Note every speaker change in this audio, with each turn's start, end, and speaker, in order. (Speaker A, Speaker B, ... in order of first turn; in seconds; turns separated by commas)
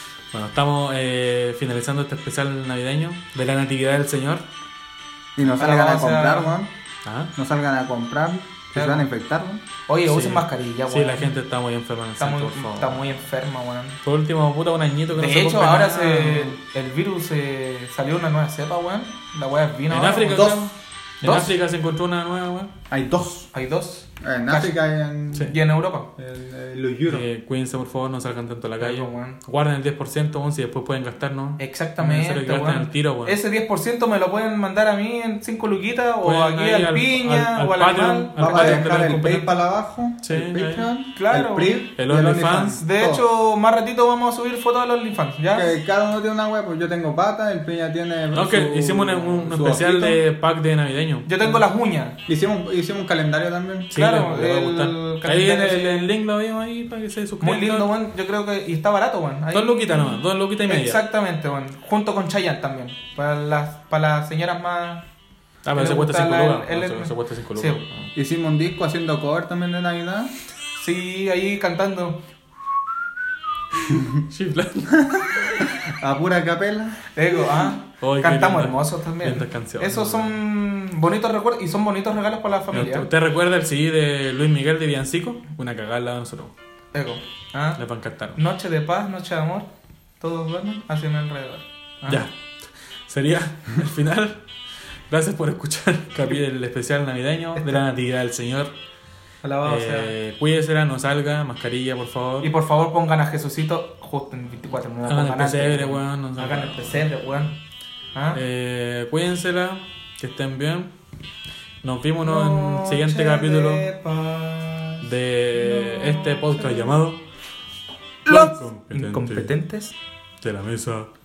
Speaker A: 0.3-4.5, Speaker B: 5.3-6.7, Speaker C: 5.5-6.6, Speaker A: 7.0-7.3, Speaker B: 7.3-9.6, Speaker C: 8.7-9.0, Speaker C: 9.9-11.3, Speaker A: 10.1-13.1, Speaker C: 12.2-14.0, Speaker A: 14.0-16.6, Speaker C: 15.1-21.6, Speaker A: 19.9-20.7, Speaker A: 21.2-22.7, Speaker B: 22.9-23.5, Speaker C: 23.5-24.7, Speaker B: 24.2-25.5, Speaker C: 25.4-26.1, Speaker B: 26.2-27.2, Speaker A: 27.1-33.4, Speaker C: 28.8-29.4, Speaker C: 31.6-38.8, Speaker A: 36.2-39.5, Speaker B: 38.4-43.2, Speaker A: 40.2-40.9, Speaker C: 41.1-41.8, Speaker A: 42.0-42.8, Speaker C: 42.7-45.7, Speaker B: 45.5-50.2, Speaker A: 48.3-51.6, Speaker C: 51.2-52.2, Speaker B: 52.3-53.9, Speaker A: 53.9-57.9, Speaker C: 53.9-56.1, Speaker C: 57.4-65.0, Speaker A: 59.5-61.0, Speaker A: 65.6-68.1, Speaker C: 65.8-67.8, Speaker B: 68.1-70.3, Speaker C: 70.8-72.2, Speaker A: 73.9-75.7, Speaker B: 75.2-77.0, Speaker C: 77.1-83.1, Speaker A: 78.0-80.3, Speaker A: 82.7-86.5, Speaker C: 86.9-87.8, Speaker A: 87.8-88.4, Speaker C: 88.3-89.7, Speaker C: 90.2-92.2, Speaker A: 92.0-92.3, Speaker A: 93.1-94.4, Speaker A: 95.1-98.7, Speaker C: 97.5-97.8, Speaker C: 99.4-100.1, Speaker A: 99.6-102.5, Speaker C: 102.4-107.6, Speaker A: 105.0-107.0, Speaker C: 108.1-108.4, Speaker A: 108.3-110.9, Speaker A: 111.8-113.8, Speaker C: 112.2-117.0, Speaker A: 115.0-117.2, Speaker C: 118.2-119.9, Speaker A: 118.3-119.5, Speaker A: 120.4-121.1